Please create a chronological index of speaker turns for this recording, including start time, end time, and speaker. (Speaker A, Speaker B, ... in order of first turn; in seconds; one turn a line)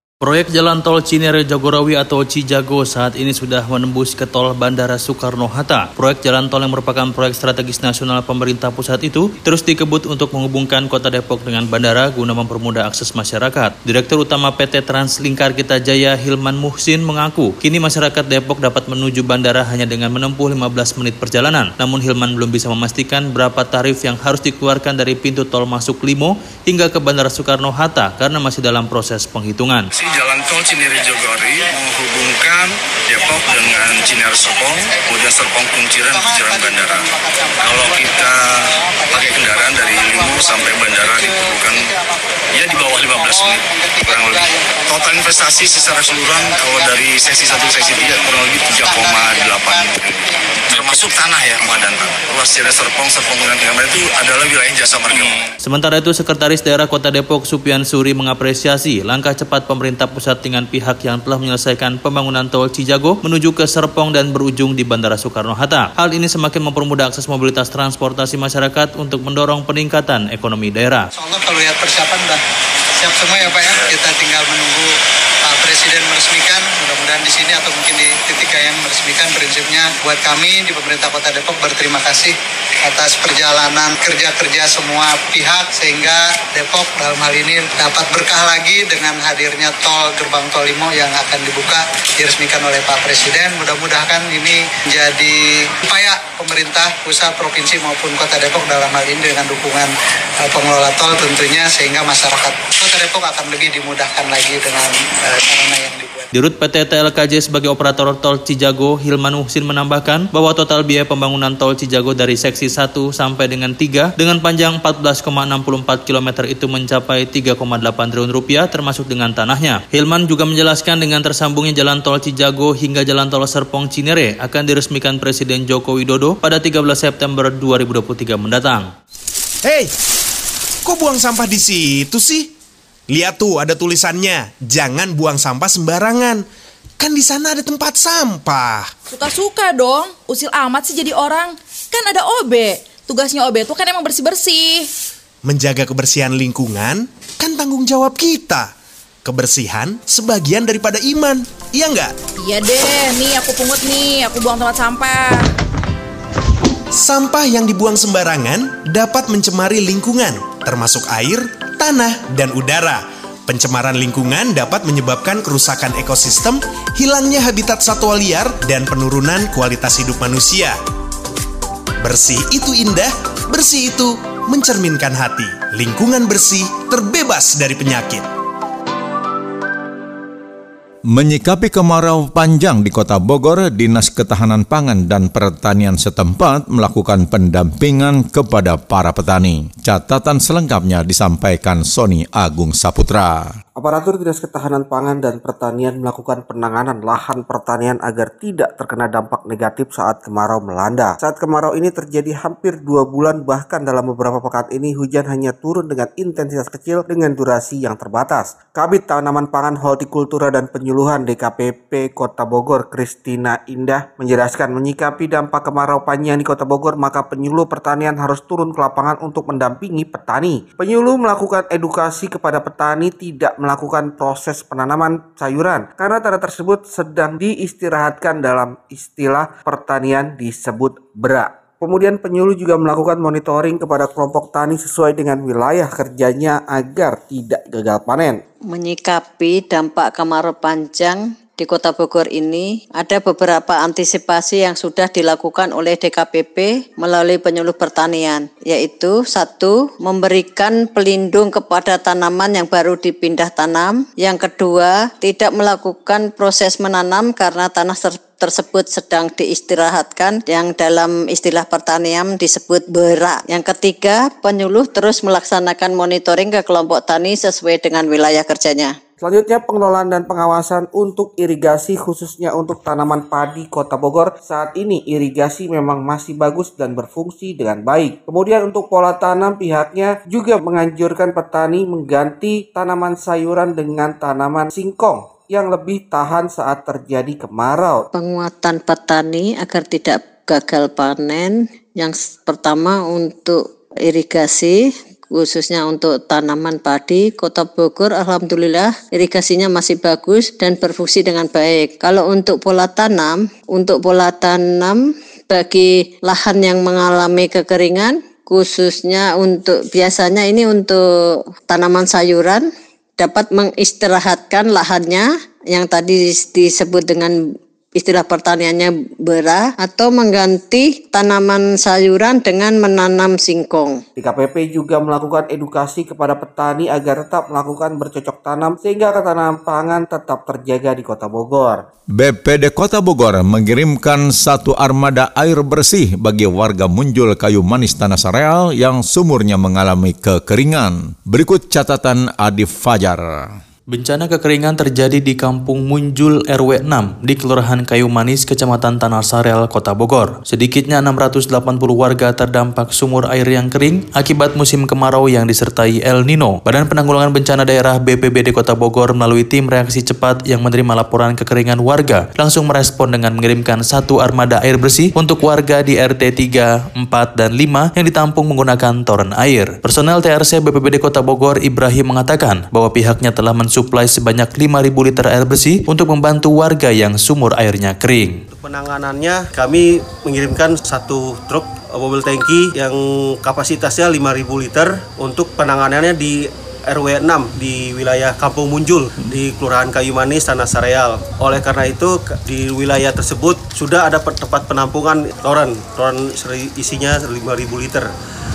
Speaker A: 0.2-29.9
Speaker B: 30.0-37.0
Speaker C: 30.2-31.7
Speaker C: 33.1-50.9
Speaker B: 37.7-38.4
Speaker B: 39.1-41.8
Speaker B: 42.6-50.1
Speaker B: 50.7-55.3
Speaker A: 55.6-71.1
Speaker C: 71.2-72.4
Speaker C: 73.0-106.3
Speaker A: 106.3-128.9
Speaker D: 129.7-129.9
Speaker D: 130.8-132.5
Speaker D: 133.1-136.4
Speaker D: 137.0-138.9
Speaker E: 139.1-144.9
Speaker D: 145.4-148.7
Speaker D: 149.2-152.1
Speaker E: 152.4-155.4
Speaker D: 156.9-170.8
Speaker D: 172.0-178.3
Speaker F: 181.1-193.6
Speaker G: 193.8-238.4
Speaker H: 238.7-268.9
Speaker G: 269.2-288.1
Speaker H: 288.1-294.8
Speaker H: 295.3-311.0
Speaker H: 311.7-312.6
Speaker H: 313.2-317.3
Speaker H: 318.0-324.0
Speaker G: 324.2-331.8
Speaker F: 332.2-343.6
Speaker A: 343.9-378.4
Speaker I: 378.5-398.1